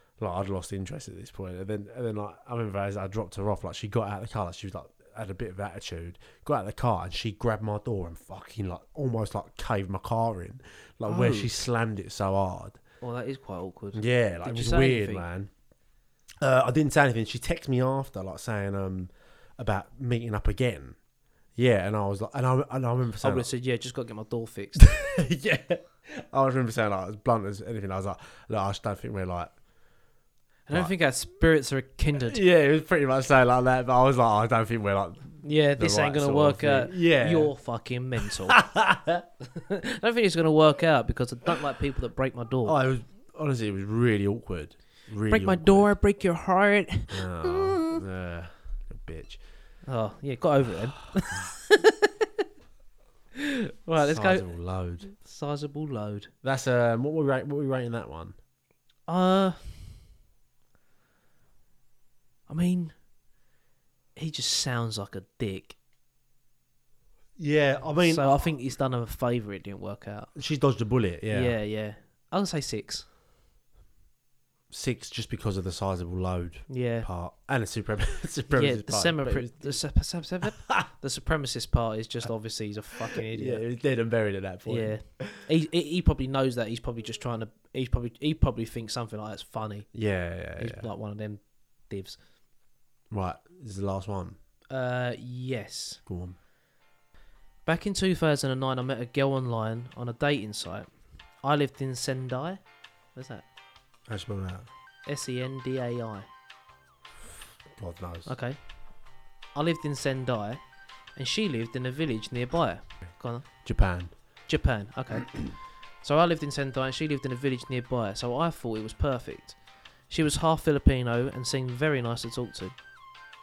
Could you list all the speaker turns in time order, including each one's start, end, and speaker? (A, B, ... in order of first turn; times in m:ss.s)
0:00.2-0:12.8 A
0:11.0-0:11.5 B
0:13.0-0:15.2 B
0:13.9-0:15.5 A
0:16.4-0:21.0 A
0:21.6-0:23.5 A
0:23.2-0:24.8 B
0:24.8-0:29.5 A
0:30.7-0:32.4 B
0:32.3-0:37.5 A
0:35.4-0:38.6 B
0:38.2-0:39.2 A
0:39.4-0:42.8 B
0:42.6-0:45.9 A
0:45.3-0:48.0 B
0:47.1-0:49.4 A
0:49.9-0:52.4 B
0:53.4-0:54.4 B
0:54.0-0:55.1 A
0:55.0-0:56.3 B
0:56.4-0:58.4 A
0:59.1-0:59.6 B
1:02.5-1:02.9 B
1:04.2-1:05.8 B
1:07.4-1:08.5 A
1:08.0-1:10.3 B
1:10.4-1:11.5 A
1:11.3-1:13.0 B
1:14.7-1:19.8 A
1:16.7-1:17.1 B
1:18.5-1:23.6 B
1:20.6-1:20.8 A
1:23.1-1:25.4 A
1:24.7-1:29.9 B
1:29.9-1:30.9 A
1:30.6-1:32.2 B
1:33.1-1:34.4 A
1:34.7-1:36.0 B
1:36.1-1:36.4 A
1:37.6-1:40.9 B
1:41.4-1:42.6 B
1:43.2-1:43.4 B
1:44.1-1:44.7 A
1:45.0-1:46.2 B
1:47.7-1:48.3 A
1:48.2-1:48.6 B
1:49.5-1:50.6 B
1:51.2-1:53.5 B
1:53.6-1:54.1 A
1:54.5-1:55.5 B
1:56.0-1:59.6 B
2:00.1-2:02.8 B